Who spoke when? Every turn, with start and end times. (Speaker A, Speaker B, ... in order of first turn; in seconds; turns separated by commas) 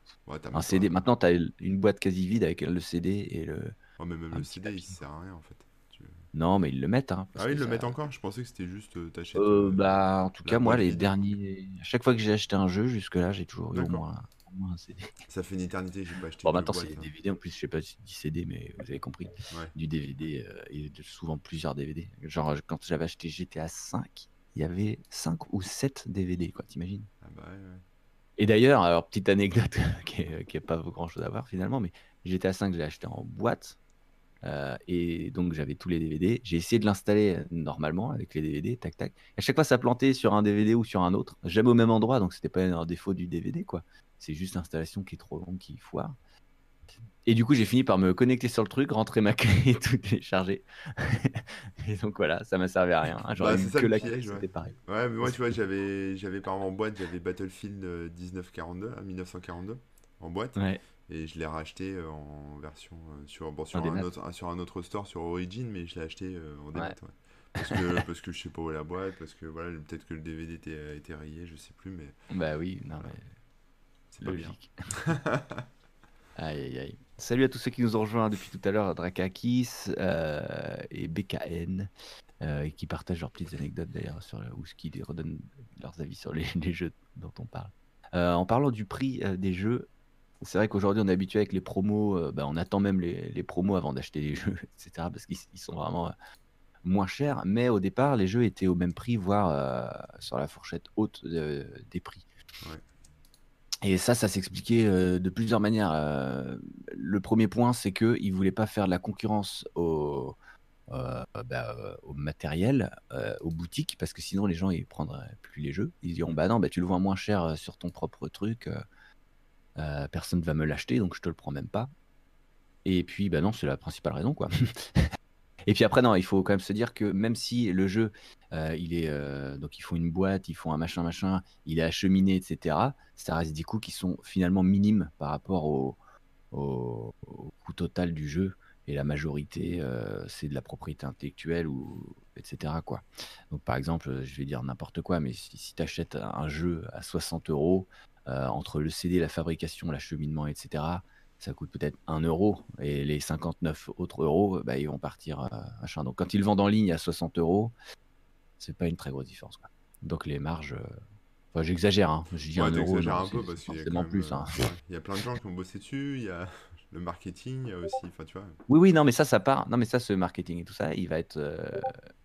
Speaker A: 0.3-0.9, Speaker B: 0.5-3.8, Speaker A: 4.0-6.3, Speaker B: 4.3-5.0, Speaker B: 6.3-7.9, Speaker A: 7.4-11.2, Speaker B: 9.3-15.1, Speaker A: 13.7-14.0, Speaker A: 15.3-17.1, Speaker B: 16.4-27.1, Speaker A: 27.2-27.8, Speaker B: 28.4-33.8, Speaker B: 34.4-46.2, Speaker B: 47.3-55.5, Speaker A: 53.4-72.2, Speaker B: 63.7-64.1, Speaker B: 67.6-67.8, Speaker B: 72.3-73.3, Speaker A: 74.1-75.7, Speaker B: 74.2-74.8, Speaker B: 76.4-81.9, Speaker B: 82.4-89.9, Speaker B: 90.4-96.1, Speaker B: 96.8-102.2, Speaker B: 103.8-110.4, Speaker B: 110.9-118.8, Speaker B: 119.8-121.9, Speaker B: 122.8-125.1, Speaker B: 125.7-136.0, Speaker B: 136.5-157.7, Speaker B: 158.6-161.0, Speaker B: 161.5-164.5, Speaker A: 162.5-168.6, Speaker B: 168.7-172.0